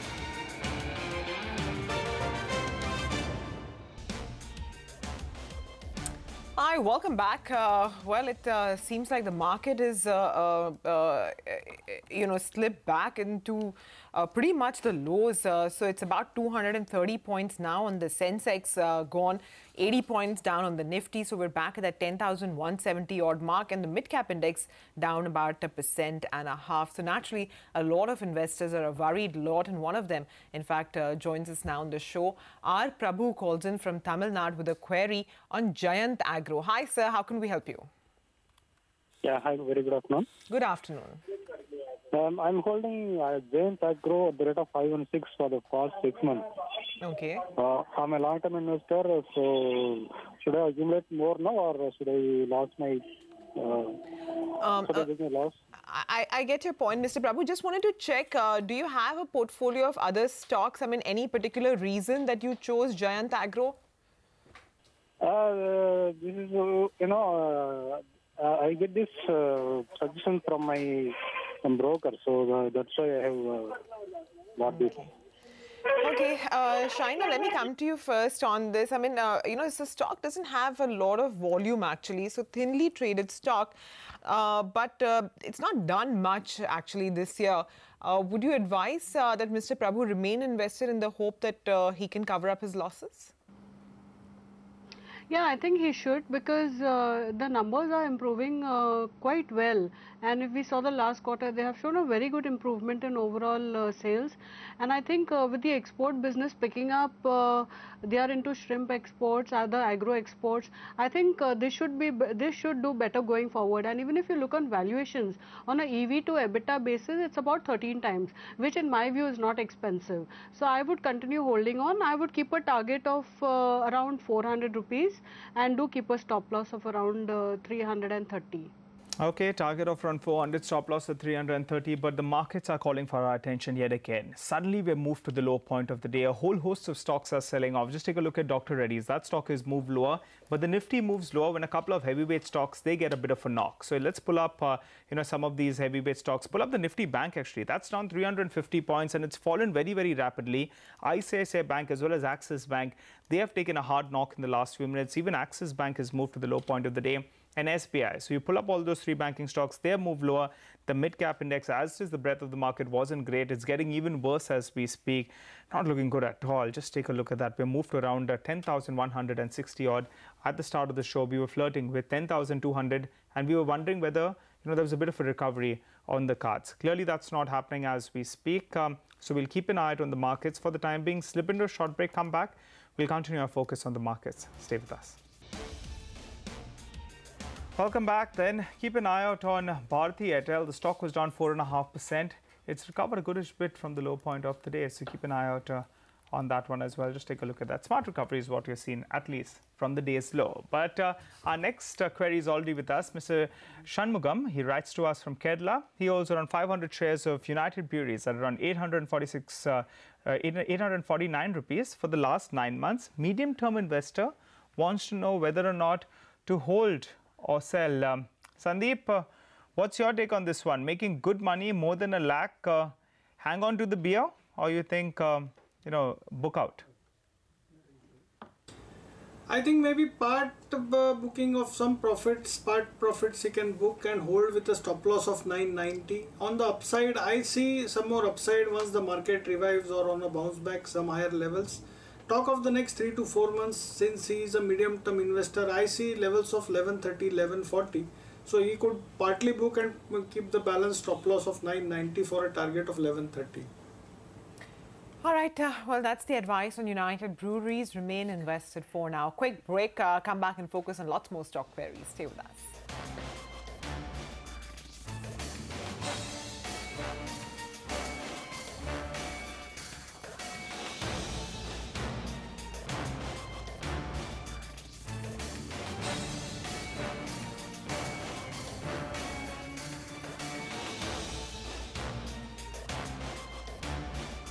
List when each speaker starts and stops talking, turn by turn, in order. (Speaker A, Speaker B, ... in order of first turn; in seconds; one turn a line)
Speaker A: 6.5-37.9
Speaker B: 39.2-40.3
Speaker A: 40.5-41.2
Speaker B: 42.1-46.4
Speaker A: 47.0-47.5
Speaker B: 47.5-53.0
Speaker B: 53.5-54.0
Speaker A: 54.6-55.1
Speaker B: 54.8-55.6
Speaker A: 55.7-63.8
Speaker B: 65.2-73.7
Speaker B: 74.5-75.0
Speaker A: 76.0-93.3
Speaker C: 95.3-128.7
Speaker D: 129.2-185.2
Speaker D: 187.8-219.2
Speaker D: 219.8-226.8
Speaker E: 229.5-253.7
Speaker A: 255.2-262.7